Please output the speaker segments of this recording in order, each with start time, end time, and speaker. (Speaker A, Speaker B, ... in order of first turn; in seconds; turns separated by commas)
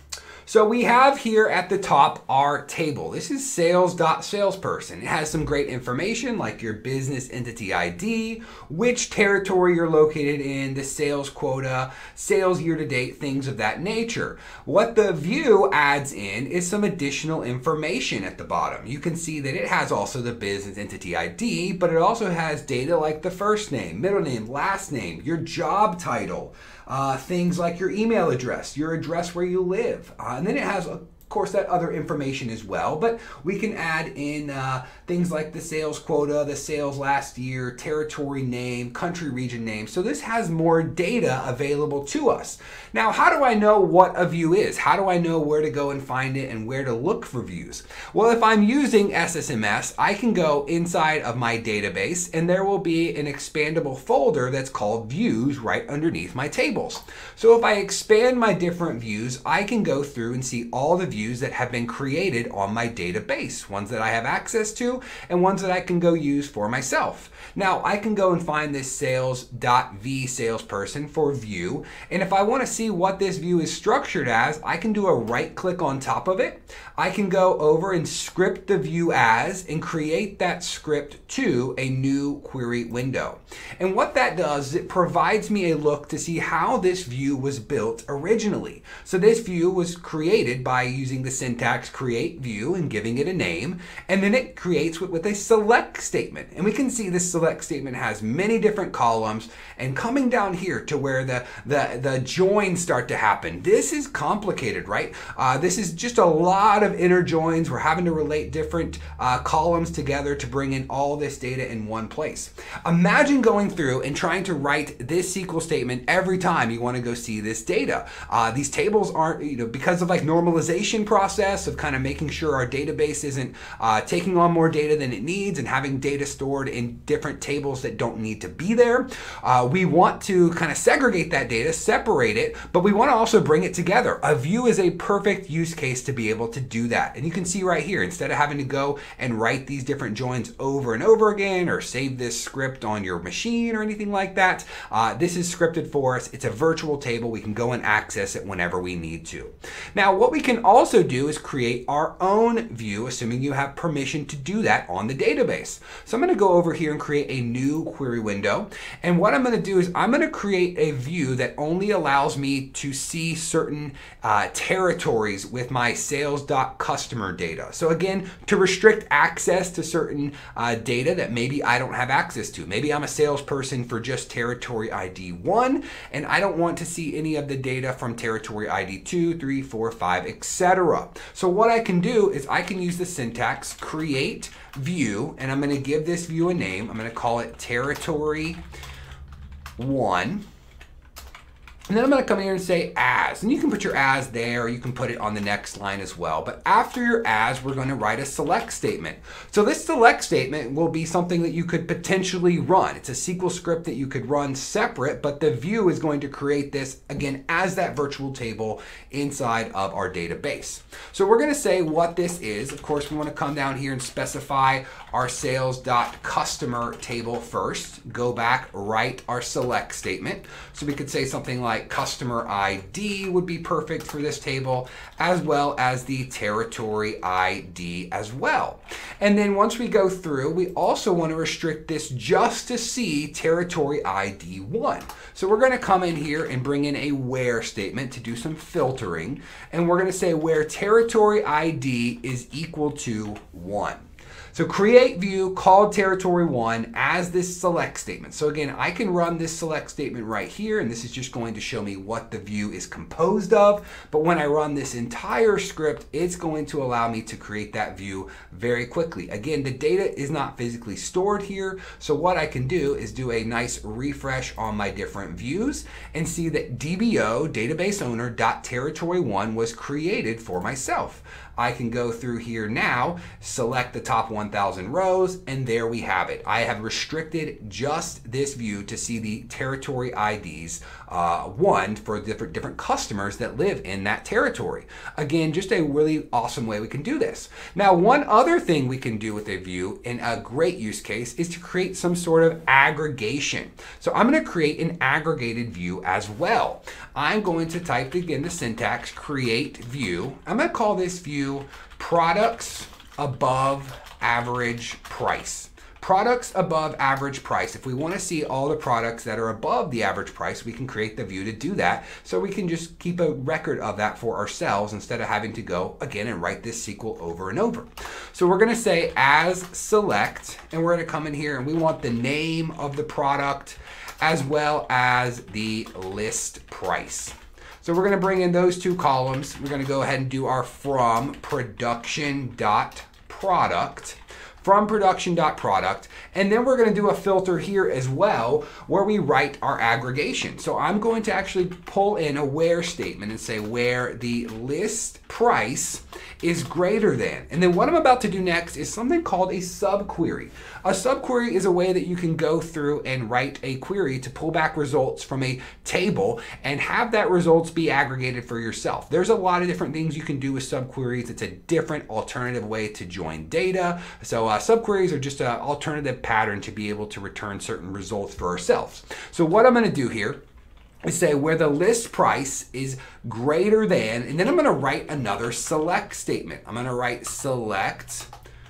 Speaker A: 0.4-188.6, Speaker A: 189.8-190.4, Speaker A: 191.9-244.0, Speaker A: 244.5-370.4, Speaker A: 371.1-378.3